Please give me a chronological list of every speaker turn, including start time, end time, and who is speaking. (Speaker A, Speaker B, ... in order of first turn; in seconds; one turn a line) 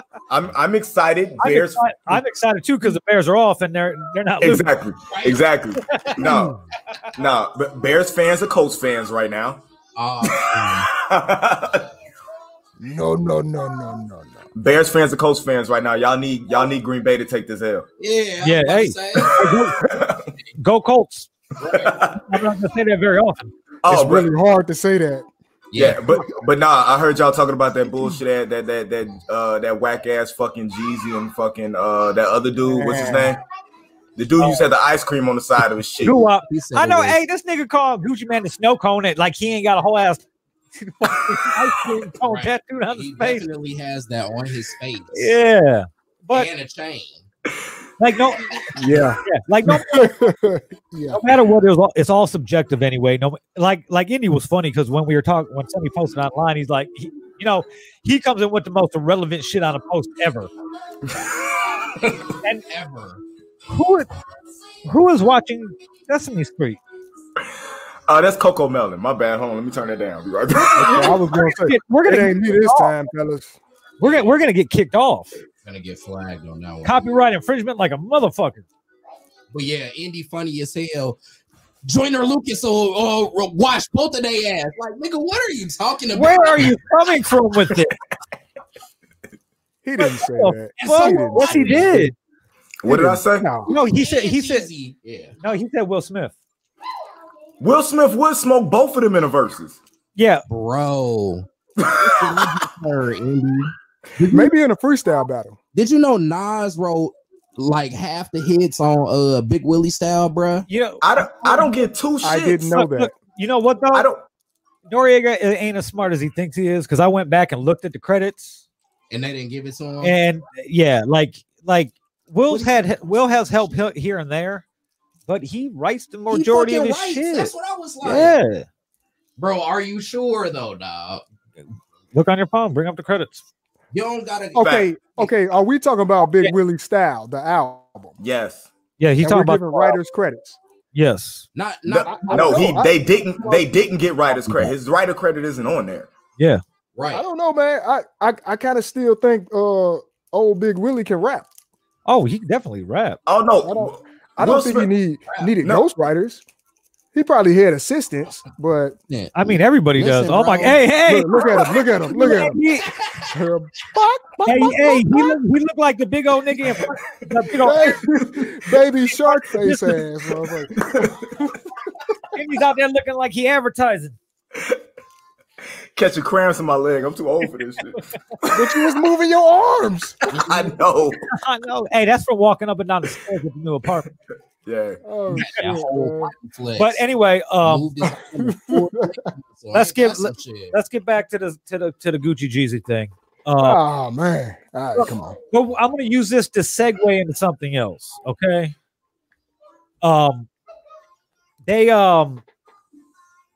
Speaker A: 0.3-2.2
Speaker B: 1.4-4.6
Speaker A: 4.4-6.5
Speaker C: 5.1-5.4
Speaker B: 5.9-6.4
Speaker A: 7.2-9.6
Speaker C: 9.9-10.9
Speaker A: 10.3-11.9
Speaker D: 12.8-14.5
Speaker A: 14.5-17.9
Speaker C: 18.0-19.4
Speaker B: 18.4-19.9
Speaker A: 19.8-20.3
Speaker B: 20.6-21.3
Speaker C: 21.6-22.0
Speaker A: 21.7-22.2
Speaker B: 22.3-23.5
Speaker A: 23.8-24.3
Speaker D: 23.9-25.3
Speaker C: 25.7-26.0
Speaker A: 25.8-33.4
Speaker D: 32.6-33.4
Speaker A: 34.2-36.2
Speaker B: 36.0-40.2
Speaker C: 36.4-37.2
Speaker B: 40.8-43.4
Speaker C: 42.2-45.3
Speaker B: 45.1-46.5
Speaker C: 46.3-47.2
Speaker B: 48.0-48.6
Speaker D: 48.8-51.2
Speaker B: 49.2-50.1
Speaker B: 51.1-60.5
Speaker C: 62.0-63.2
Speaker B: 63.7-64.1
Speaker B: 64.9-66.8
Speaker A: 68.1-71.2
Speaker D: 70.6-73.6
Speaker B: 70.8-72.9
Speaker B: 74.0-75.3
Speaker C: 75.6-77.0
Speaker B: 76.8-78.7
Speaker C: 79.5-81.2
Speaker C: 81.8-86.7
Speaker B: 86.1-87.9
Speaker D: 89.8-92.1
Speaker B: 90.0-92.1
Speaker C: 90.8-91.9
Speaker A: 92.8-93.5
Speaker D: 92.8-93.7
Speaker B: 93.7-94.7
Speaker C: 93.9-95.3
Speaker B: 95.4-96.3
Speaker A: 97.6-99.8
Speaker B: 100.2-100.4
Speaker C: 100.5-104.5
Speaker A: 101.8-102.7
Speaker D: 104.3-105.6
Speaker C: 105.7-110.7
Speaker B: 110.7-111.7
Speaker A: 111.0-112.7
Speaker D: 112.2-113.1
Speaker B: 112.6-114.0
Speaker A: 113.9-114.2
Speaker B: 114.9-118.6
Speaker C: 119.1-120.2
Speaker B: 120.0-124.6
Speaker C: 122.5-123.8
Speaker B: 125.3-128.7
Speaker C: 126.3-128.4
Speaker C: 129.4-131.2
Speaker B: 132.1-133.4
Speaker C: 133.9-134.8
Speaker D: 134.5-138.2
Speaker A: 134.6-134.8
Speaker A: 138.2-138.7
Speaker B: 139.0-140.0
Speaker D: 139.2-140.6
Speaker B: 140.9-141.5
Speaker C: 141.5-142.7
Speaker D: 141.9-143.7
Speaker A: 142.3-146.1
Speaker C: 146.9-147.2
Speaker D: 147.1-151.5
Speaker B: 152.1-153.2
Speaker A: 153.3-154.9
Speaker D: 153.6-156.4
Speaker D: 157.1-159.0
Speaker C: 159.1-160.8
Speaker B: 159.3-162.9
Speaker D: 161.1-162.6
Speaker D: 163.3-165.3
Speaker B: 164.4-168.0
Speaker D: 167.6-171.6
Speaker A: 168.2-168.5
Speaker B: 169.2-170.0
Speaker A: 170.9-171.4
Speaker B: 172.3-174.2
Speaker A: 175.9-178.6
Speaker D: 178.5-180.2
Speaker A: 180.3-181.2
Speaker C: 180.3-180.7
Speaker B: 181.3-184.0
Speaker A: 184.6-185.0
Speaker D: 185.0-186.3
Speaker C: 185.3-187.0
Speaker B: 186.8-187.9
Speaker C: 187.6-190.7
Speaker D: 188.3-189.1
Speaker B: 189.7-193.8
Speaker D: 193.6-195.4
Speaker B: 194.9-198.7
Speaker B: 200.0-200.5
Speaker B: 201.6-202.4